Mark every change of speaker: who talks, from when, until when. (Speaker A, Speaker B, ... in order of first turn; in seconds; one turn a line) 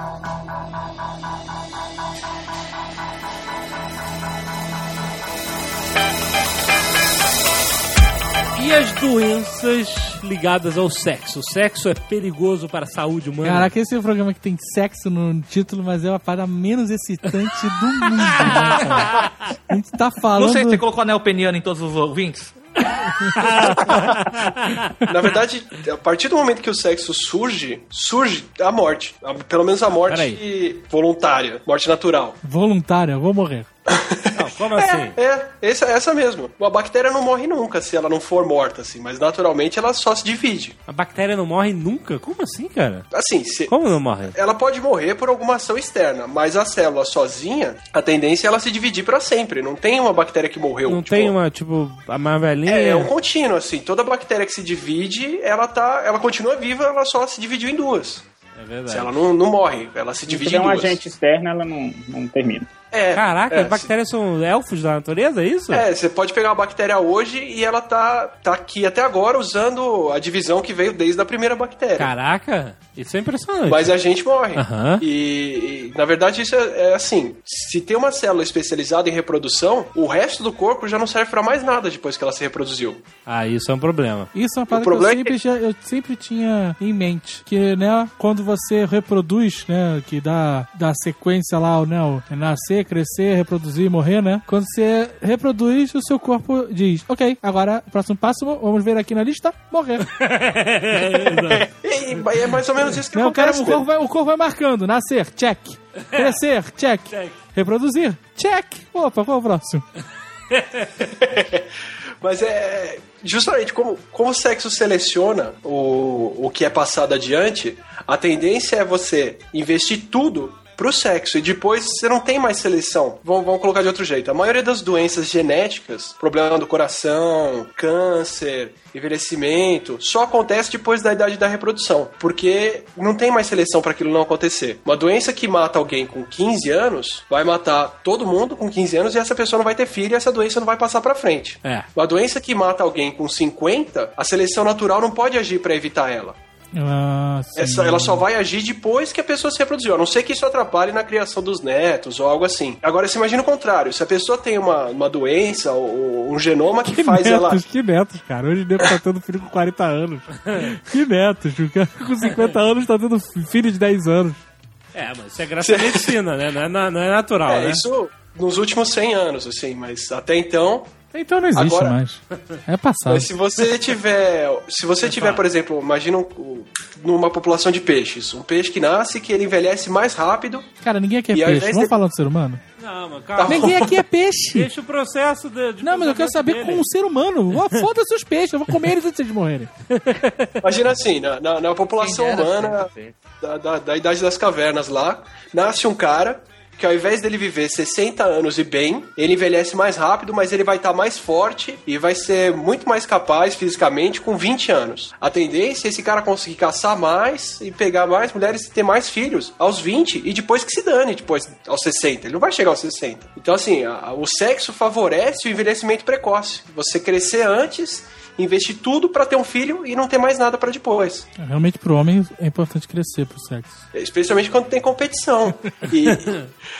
Speaker A: 8.6-13.7
Speaker B: 13.4-19.1
Speaker A: 18.4-19.2
Speaker B: 19.7-20.8
Speaker C: 20.3-22.5
Speaker A: 23.4-24.9
Speaker D: 23.8-24.4
Speaker D: 25.1-32.4
Speaker A: 30.1-30.4
Speaker B: 32.4-33.7
Speaker D: 33.9-40.8
Speaker A: 34.3-35.2
Speaker A: 40.9-43.1
Speaker D: 43.1-43.7
Speaker A: 43.7-44.3
Speaker D: 44.3-51.3
Speaker A: 50.9-53.1
Speaker D: 52.7-58.2
Speaker A: 58.5-59.1
Speaker D: 58.9-61.0
Speaker E: 60.3-62.7
Speaker D: 62.9-63.9
Speaker A: 63.1-65.8
Speaker D: 65.7-72.1
Speaker A: 72.0-73.9
Speaker D: 73.7-83.0
Speaker A: 74.5-75.0
Speaker A: 83.2-84.3
Speaker B: 84.3-100.0
Speaker D: 84.7-85.3
Speaker A: 100.0-101.7
Speaker D: 101.5-103.8
Speaker B: 103.1-109.8
Speaker A: 106.1-106.4
Speaker A: 107.1-107.3
Speaker A: 110.5-111.0
Speaker D: 111.0-111.7
Speaker D: 112.2-146.4
Speaker B: 146.7-148.2
Speaker D: 147.6-157.6
Speaker B: 156.8-164.4
Speaker A: 164.9-167.8
Speaker D: 165.6-166.1
Speaker D: 167.5-170.9
Speaker B: 171.1-173.3
Speaker D: 171.5-171.9
Speaker D: 173.1-180.7
Speaker A: 175.0-175.4
Speaker B: 180.8-182.6
Speaker D: 181.3-181.9
Speaker A: 182.8-183.8
Speaker D: 183.4-183.9
Speaker B: 183.4-184.7
Speaker A: 184.5-186.8
Speaker B: 185.8-189.7
Speaker A: 189.9-190.5
Speaker D: 190.6-192.9
Speaker C: 192.0-193.2
Speaker D: 193.4-221.3
Speaker B: 221.4-223.8
Speaker D: 223.9-226.5